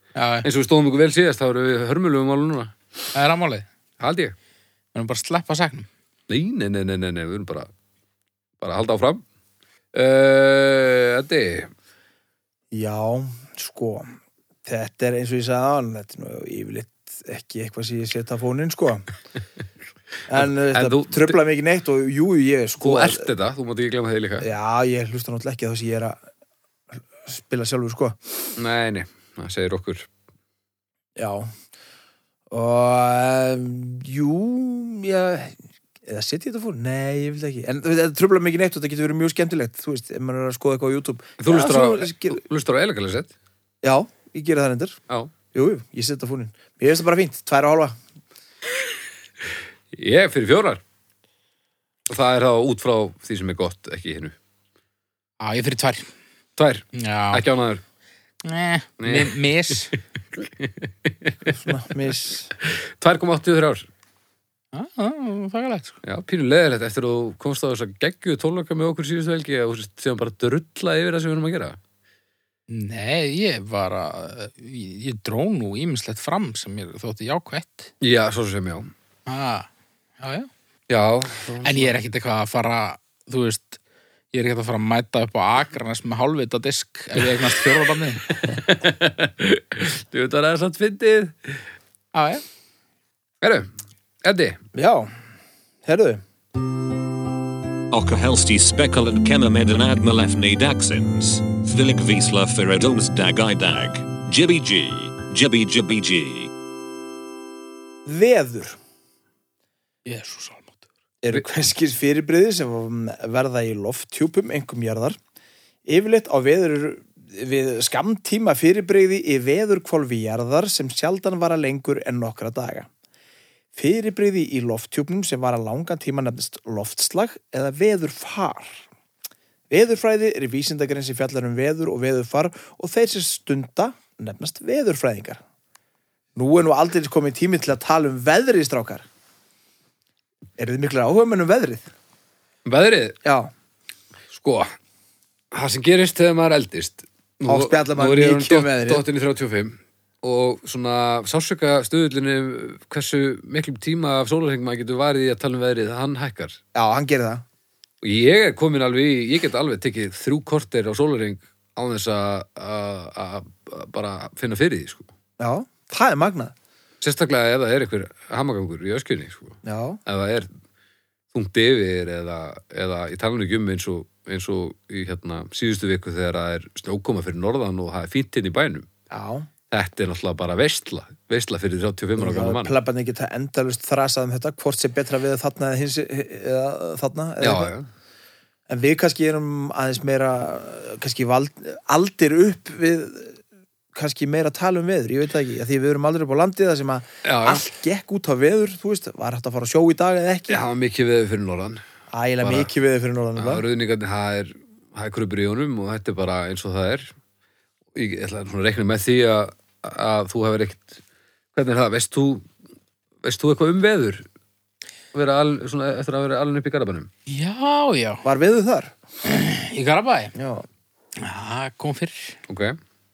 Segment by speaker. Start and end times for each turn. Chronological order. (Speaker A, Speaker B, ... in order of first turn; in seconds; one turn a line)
Speaker A: 0.2-0.5
Speaker B: 0.4-2.7
Speaker A: 3.1-3.7
Speaker B: 4.0-4.3
Speaker A: 4.9-5.9
Speaker B: 6.3-7.7
Speaker B: 8.6-9.2
Speaker B: 9.9-11.7
Speaker C: 12.7-14.1
Speaker C: 14.7-19.0
Speaker C: 20.3-23.3
Speaker B: 20.4-21.4
Speaker B: 22.8-24.5
Speaker C: 24.4-26.2
Speaker C: 27.2-28.2
Speaker B: 28.6-30.1
Speaker C: 31.2-31.5
Speaker C: 32.5-42.4
Speaker B: 41.4-43.3
Speaker C: 43.8-45.0
Speaker C: 45.5-48.0
Speaker B: 49.9-50.8
Speaker B: 52.1-54.4
Speaker A: 55.4-56.1
Speaker B: 56.6-57.8
Speaker A: 57.0-57.4
Speaker A: 58.5-59.9
Speaker B: 59.0-59.4
Speaker B: 60.4-61.4
Speaker C: 61.5-62.5
Speaker B: 62.6-63.9
Speaker A: 64.7-66.0
Speaker B: 66.0-71.8
Speaker A: 72.7-77.9
Speaker B: 78.0-78.9
Speaker A: 79.3-79.7
Speaker A: 80.2-80.5
Speaker B: 80.9-81.9
Speaker A: 81.6-83.8
Speaker A: 84.3-88.3
Speaker B: 88.3-91.6
Speaker A: 92.1-92.4
Speaker B: 93.4-93.7
Speaker B: 94.2-94.6
Speaker C: 94.8-95.1
Speaker C: 95.8-96.2
Speaker D: 97.9-106.5
Speaker C: 108.0-108.8
Speaker A: 110.1-110.8
Speaker C: 111.2-115.2
Speaker C: 115.9-122.9
Speaker C: 123.8-128.8
Speaker C: 129.7-135.4
Speaker C: 136.3-139.1
Speaker C: 140.6-141.9
Speaker B: 142.7-143.2
Speaker C: 143.2-143.5
Speaker B: 144.3-144.7
Speaker B: 145.5-156.6
Speaker C: 147.5-149.1
Speaker C: 156.8-157.4
Speaker B: 158.0-165.1
Speaker C: 165.4-166.5
Speaker B: 167.0-170.5
Speaker C: 169.6-170.0
Speaker B: 171.3-178.9
Speaker C: 179.1-179.5
Speaker B: 179.7-182.7
Speaker C: 182.2-187.7
Speaker B: 187.4-187.9
Speaker C: 188.7-193.4
Speaker C: 193.9-200.6
Speaker B: 197.2-197.7
Speaker B: 200.5-201.8
Speaker C: 202.1-203.7
Speaker B: 202.4-202.7
Speaker B: 203.4-207.1
Speaker B: 207.9-211.0
Speaker B: 211.6-212.5
Speaker B: 213.2-214.2
Speaker B: 215.1-217.1
Speaker A: 217.3-218.2
Speaker C: 218.2-218.9
Speaker A: 219.2-220.3
Speaker C: 220.3-220.7
Speaker A: 221.2-222.4
Speaker B: 222.5-222.8